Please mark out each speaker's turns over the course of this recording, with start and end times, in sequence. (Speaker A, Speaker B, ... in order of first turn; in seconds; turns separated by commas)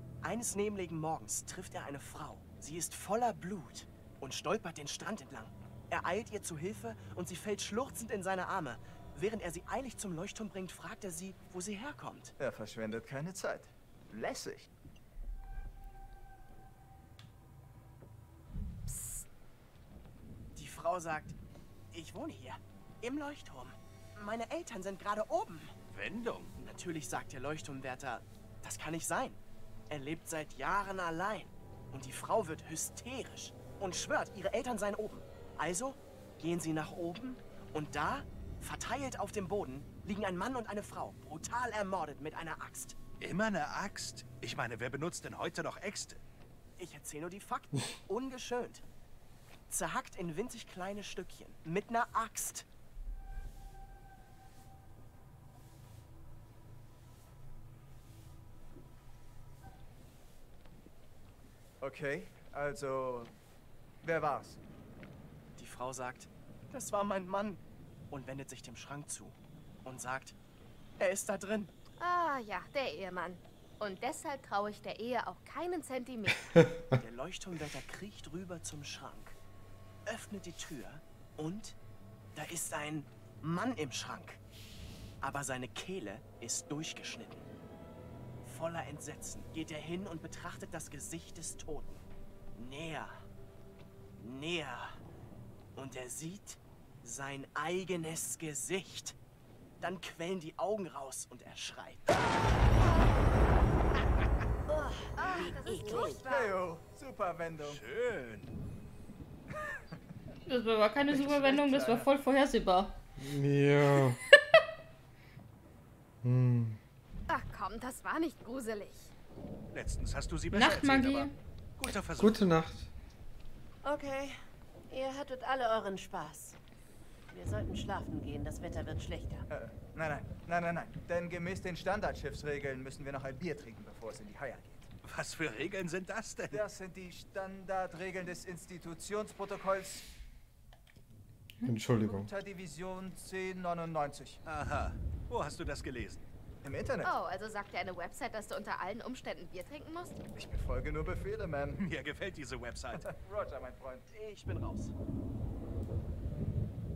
Speaker A: 0.2-12.3, Speaker B: 12.4-14.7, Speaker C: 18.9-19.2, Speaker A: 20.5-21.4, Speaker A: 21.9-25.7, Speaker D: 25.9-26.5, Speaker A: 26.6-29.4, Speaker A: 29.9-43.0, Speaker D: 43.2-46.2, Speaker A: 46.8-48.8, Speaker A: 49.7-52.6, Speaker B: 61.8-63.3, Speaker B: 64.0-64.6, Speaker A: 65.6-70.3, Speaker A: 71.0-71.7, Speaker C: 72.0-76.5, Speaker A: 77.0-79.4, Speaker A: 80.0-81.8, Speaker A: 82.3-84.4, Speaker A: 85.2-87.4, Speaker A: 88.4-92.0, Speaker A: 92.5-93.2, Speaker A: 94.2-95.0, Speaker A: 95.8-99.2, Speaker A: 99.8-102.1, Speaker E: 104.7-106.2, Speaker C: 105.1-106.6, Speaker B: 106.2-107.8, Speaker D: 107.6-108.6, Speaker F: 110.5-113.0, Speaker B: 111.1-112.0, Speaker G: 113.2-114.2, Speaker F: 114.3-114.6, Speaker G: 116.2-116.8, Speaker C: 117.3-119.1, Speaker D: 119.7-122.4, Speaker F: 120.5-121.3, Speaker G: 122.2-122.9, Speaker E: 123.8-126.6, Speaker E: 127.3-129.4, Speaker B: 129.5-134.9, Speaker D: 135.0-136.6, Speaker B: 136.5-140.1, Speaker G: 141.6-142.3, Speaker B: 142.0-144.4, Speaker D: 144.4-146.2, Speaker B: 146.6-147.1, Speaker C: 147.0-150.2, Speaker B: 150.3-151.8, Speaker D: 151.8-153.1, Speaker B: 153.0-154.1, Speaker A: 154.1-154.9